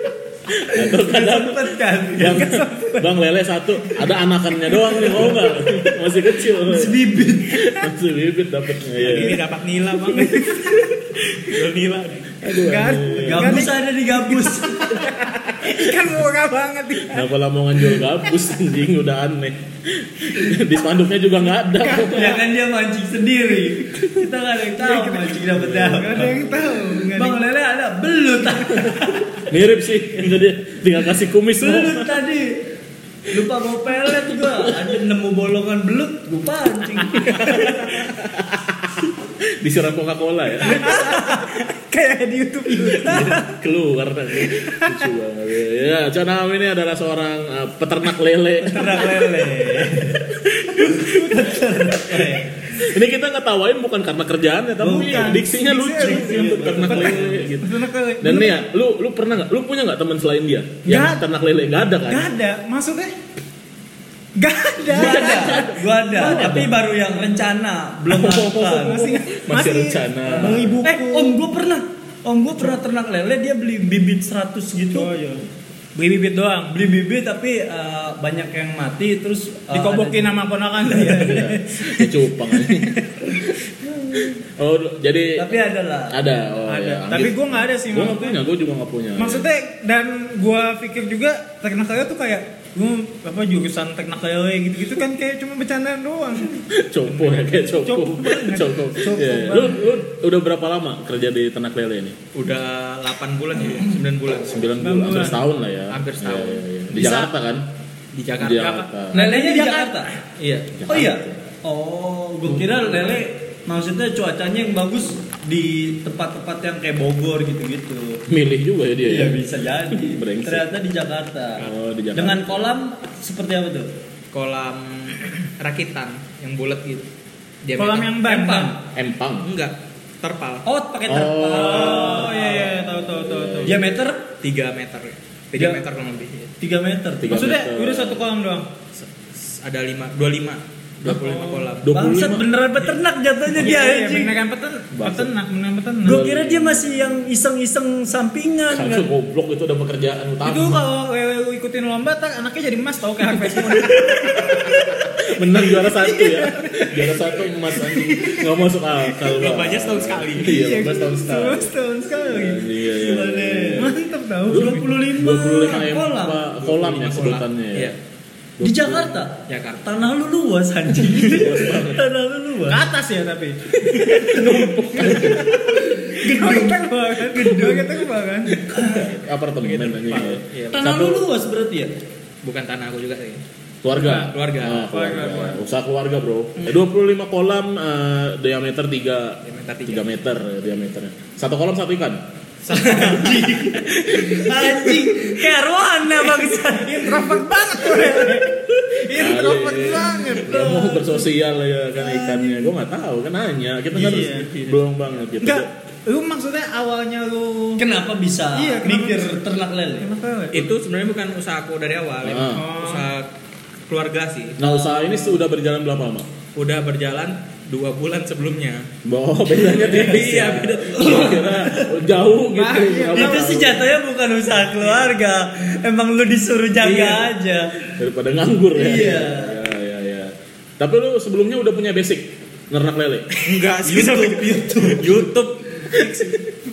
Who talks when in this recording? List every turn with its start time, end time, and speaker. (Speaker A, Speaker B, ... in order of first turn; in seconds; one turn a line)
Speaker A: 0.6-9.4
Speaker B: 0.8-2.5
Speaker C: 2.3-3.1
Speaker C: 4.7-5.3
Speaker B: 6.6-7.6
Speaker D: 9.0-12.3
Speaker C: 10.1-10.8
Speaker A: 12.4-13.7
Speaker C: 12.6-17.3
Speaker B: 13.2-15.0
Speaker A: 17.1-22.4
Speaker C: 21.8-22.4
Speaker B: 22.0-26.4
Speaker C: 24.8-25.4
Speaker A: 25.5-26.5
Speaker C: 25.9-27.4
Speaker B: 27.1-29.4
Speaker A: 29.5-32.1
Speaker B: 31.6-32.6
Speaker B: 33.3-37.9
Speaker A: 37.2-41.1
Speaker C: 37.3-37.7
Speaker C: 40.6-43.5
Speaker A: 43.0-49.2
Speaker C: 44.6-45.0
Speaker B: 48.6-52.5
Speaker C: 50.8-51.4
Speaker A: 52.8-62.3
Speaker B: 54.8-57.5
Speaker C: 54.8-58.6
Speaker C: 60.9-61.2
Speaker C: 62.1-63.1
Speaker C: 64.4-66.6
Speaker A: 64.9-66.7
Speaker B: 64.9-69.0
Speaker A: 68.1-70.8
Speaker C: 68.8-71.4
Speaker B: 70.3-75.1
Speaker C: 74.9-75.4
Speaker C: 76.0-76.8
Speaker B: 76.7-81.4
Speaker C: 79.7-83.0
Speaker A: 81.1-83.0
Speaker A: 84.1-89.5
Speaker B: 85.4-86.2
Speaker C: 86.9-88.4
Speaker C: 89.2-96.6
Speaker A: 96.7-102.2
Speaker C: 97.8-99.8
Speaker D: 102.3-104.6
Speaker A: 104.4-107.7
Speaker C: 104.8-105.4
Speaker D: 105.9-106.6
Speaker C: 106.9-107.3
Speaker D: 108.1-108.8
Speaker A: 108.4-109.2
Speaker C: 108.6-110.1
Speaker B: 109.1-110.1
Speaker D: 110.4-110.7
Speaker A: 110.8-111.3
Speaker B: 110.9-118.2
Speaker A: 118.3-120.7
Speaker B: 119.0-123.9
Speaker A: 121.6-122.8
Speaker D: 124.3-127.1
Speaker D: 127.6-128.2
Speaker C: 127.8-128.7
Speaker B: 128.2-128.8
Speaker A: 128.9-129.5
Speaker D: 129.4-130.7
Speaker B: 130.7-132.6
Speaker A: 131.1-133.9
Speaker C: 131.5-133.7
Speaker B: 133.7-134.2
Speaker D: 134.4-136.5
Speaker B: 136.6-137.4
Speaker A: 137.2-138.2
Speaker C: 137.3-138.7
Speaker D: 139.0-141.9
Speaker C: 141.2-141.7
Speaker A: 141.8-142.5
Speaker B: 141.9-144.4
Speaker C: 143.6-146.2
Speaker A: 144.9-145.3
Speaker A: 146.0-147.2
Speaker B: 146.1-149.1
Speaker A: 148.7-150.8
Speaker C: 150.4-155.1
Speaker A: 153.5-161.7
Speaker C: 155.8-157.1
Speaker C: 157.7-158.6
Speaker D: 159.2-160.6
Speaker C: 160.4-162.6
Speaker B: 162.2-163.9
Speaker A: 162.3-163.9
Speaker C: 163.8-164.8
Speaker A: 164.5-167.9
Speaker B: 164.5-166.4
Speaker D: 166.6-168.0
Speaker A: 168.6-169.2
Speaker B: 168.6-172.8
Speaker D: 169.5-169.8
Speaker A: 171.2-172.1
Speaker C: 172.7-178.6
Speaker D: 174.0-174.2
Speaker A: 174.1-175.6
Speaker B: 176.1-178.1
Speaker A: 178.7-181.2
Speaker B: 178.7-179.1
Speaker D: 179.6-180.9
Speaker B: 180.7-181.9
Speaker D: 182.4-183.4
Speaker A: 183.8-192.2
Speaker C: 184.0-184.3
Speaker D: 184.1-184.9
Speaker C: 184.9-185.6
Speaker D: 189.4-190.1
Speaker D: 192.6-195.1
Speaker B: 192.7-197.4
Speaker C: 196.8-201.2
Speaker A: 199.1-205.7
Speaker C: 202.0-202.7
Speaker C: 203.9-204.5
Speaker B: 204.0-204.3
Speaker C: 205.4-207.8
Speaker B: 207.8-210.1
Speaker C: 208.6-209.4
Speaker C: 210.0-210.6
Speaker D: 210.5-213.3
Speaker A: 212.2-212.7
Speaker C: 212.5-213.1
Speaker D: 213.9-215.2
Speaker A: 214.6-216.3
Speaker D: 216.6-218.9
Speaker A: 219.1-223.9
Speaker D: 219.5-221.6
Speaker B: 220.9-221.9
Speaker C: 222.6-223.6
Speaker B: 223.1-227.8
Speaker D: 226.8-227.3
Speaker A: 228.0-233.3
Speaker B: 228.8-229.6
Speaker D: 233.4-236.5
Speaker B: 233.8-235.2